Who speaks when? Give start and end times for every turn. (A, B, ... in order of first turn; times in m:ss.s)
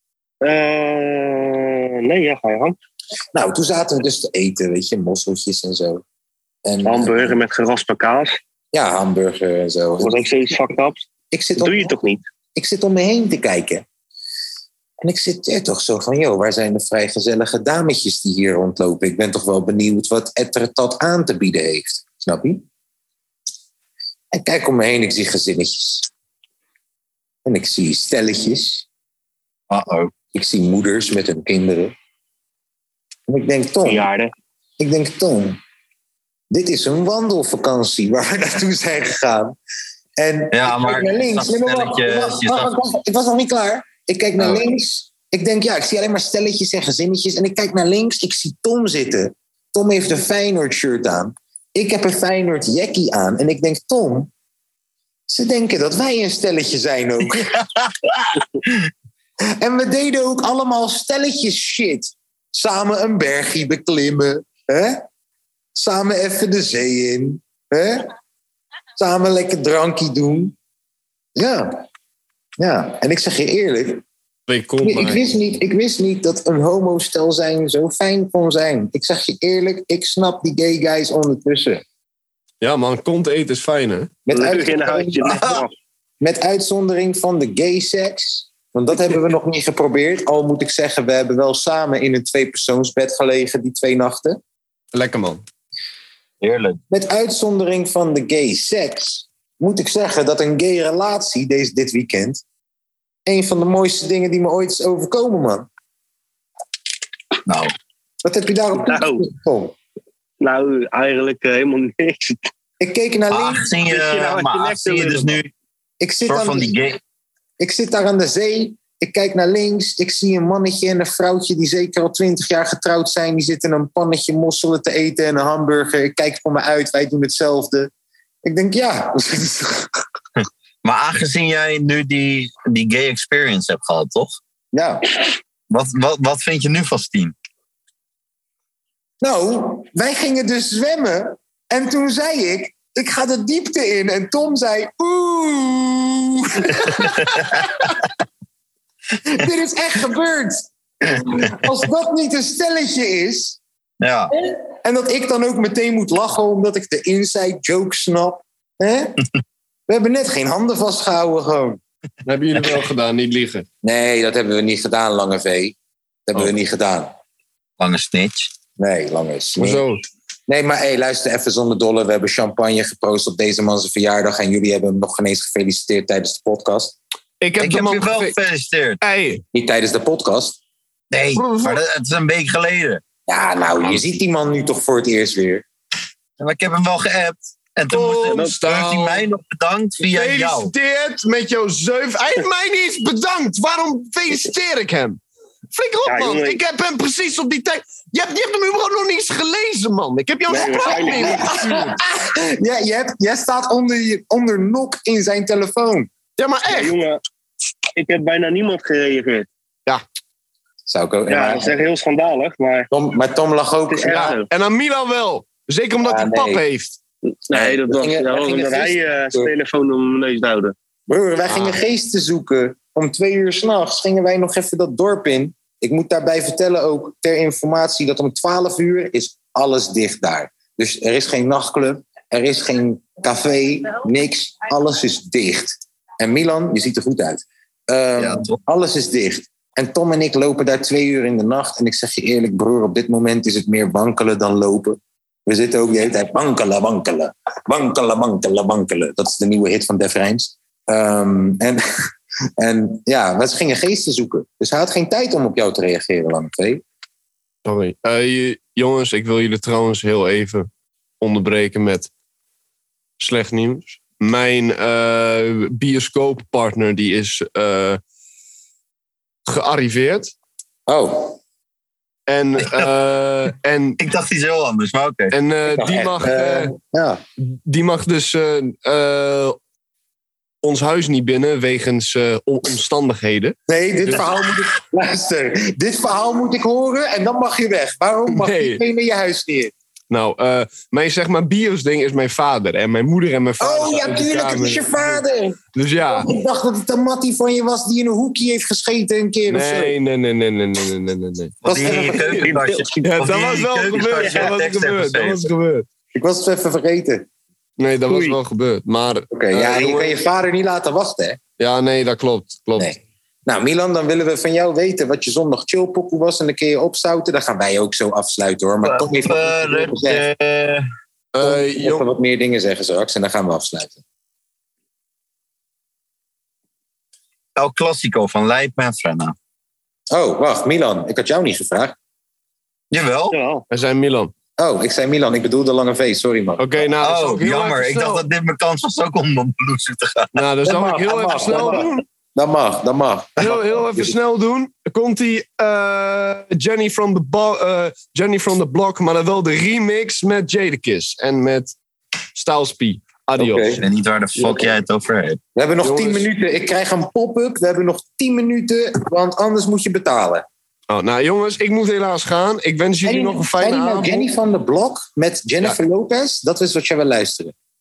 0:00.4-0:02.8 A
0:03.3-0:06.0 B
0:06.6-0:07.4 B
0:06.8-0:08.4 A
0:08.7-0:10.3 B
0:10.0-0:11.1 A
0:11.3-0:12.0 B
0:11.6-0:12.2 A
0:12.6-0:13.8 B
0:15.0-0:22.6 B
0:24.3-0:26.1 B
0:27.4-0:28.8 B
0:29.7-0:30.1 C
0:30.3-0:31.9 B
0:33.3-0:34.1 B
0:33.8-0:34.3 A
0:34.8-0:35.6 B
0:36.5-0:39.6 B
0:40.2-0:54.3 B
0:40.5-0:42.7 C
0:55.3-0:57.5 B
0:59.6-1:05.0 B
1:05.7-1:08.1 B
1:09.0-1:10.5 B
1:11.4-1:11.8 B
1:12.6-1:14.0 B
1:14.5-1:15.2 D
1:14.8-1:21.8 B
1:22.6-1:24.1 D
1:24.3-1:25.5 B
1:24.3-1:25.7 A
1:26.2-1:34.4 B
1:34.9-1:35.4 D
1:36.4-1:36.8 C
1:36.9-1:42.4 B
1:43.3-1:45.7 B
1:48.2-1:49.7 B
1:48.8-1:49.2 A
1:50.4-1:52.4 A
1:52.8-1:53.7 B
1:53.3-1:55.5 C
1:53.8-1:55.4 A
1:56.0-1:56.7 B
1:56.2-1:57.0 C
1:57.6-2:07.9 B
2:08.4-2:09.9 B
2:10.8-2:14.3 C
2:14.7-2:15.0 B
2:15.7-2:17.3 C
2:19.2-2:27.4 B
2:27.3-2:27.6 C
2:29.2-2:33.6 B
2:34.0-2:34.3 C
2:34.4-2:39.2 B
2:39.9-2:41.8 B
2:42.2-2:43.6 D
2:43.8-2:45.8 B
2:46.3-2:47.1 B
2:47.8-2:48.5 C
2:48.8-2:49.8 B
2:49.6-2:50.0 D
2:50.5-2:57.0 B
2:57.4-2:58.3 D
2:57.6-2:59.0 C
2:59.0-2:59.4 D
2:59.5-3:00.6 B
3:01.1-3:03.0 C
3:01.3-3:01.8 D
3:03.3-3:05.6 B
3:06.4-3:10.7 C
3:07.9-3:09.2 D
3:10.0-3:15.2 D
3:15.7-3:22.0 D
3:16.0-3:16.6 A
3:20.5-3:21.4 A
3:21.1-3:26.1 B
3:26.4-3:27.0 D
3:26.7-3:27.2 A
3:28.0-3:29.5 A
3:30.8-3:31.7 B
3:31.3-3:32.9 A
3:32.9-3:34.4 B
3:33.9-3:34.5 A
3:34.1-3:37.0 D
3:36.0-3:36.6 B
3:37.3-3:40.7 A
3:37.5-3:39.5 B
3:41.1-4:11.8 B
3:58.2-3:58.6 C
4:12.6-4:16.8 B
4:17.6-4:20.7 D
4:21.2-4:22.1 D
4:23.2-4:28.0 D
4:29.5-4:30.3 D
4:30.9-4:31.4 B
4:32.3-4:34.0 D
4:34.0-4:35.3 C
4:35.3-4:36.7 D
4:35.7-4:37.2 B
4:37.4-4:39.6 D
4:40.6-4:43.6 D
4:43.7-4:49.7 B
4:48.3-4:48.8 D
4:50.1-4:55.2 D
4:53.6-5:00.0 B
4:55.7-4:56.3 D
4:59.5-5:02.4 D
5:01.6-5:05.5 C
5:01.6-5:02.4 B
5:02.4-5:03.0 A
5:03.0-5:05.8 D
5:04.2-5:04.5 A
5:06.1-5:07.3 B
5:07.8-5:10.2 D
5:08.1-5:08.3 A
5:09.3-5:11.4 B
5:11.6-5:12.9 D
5:12.8-5:20.2 B
5:18.8-5:20.8 C
5:21.3-5:22.0 D
5:21.4-5:24.0 B
5:27.6-5:29.3 C
5:30.1-5:31.9 B
5:32.9-5:33.3 C
5:33.3-5:33.6 A
5:33.7-5:34.3 D
5:34.6-5:36.9 B
5:36.6-5:38.2 D
5:37.0-5:40.3 C
5:40.3-5:42.0 D
5:40.6-5:44.2 B
5:43.4-5:51.7 D
5:52.3-5:53.8 D
5:53.4-5:53.8 B
5:53.8-5:55.4 C
5:54.4-5:54.7 D
5:55.5-6:00.4 B
5:55.8-5:56.2 D
6:00.9-6:04.3 D
6:03.0-6:07.5 B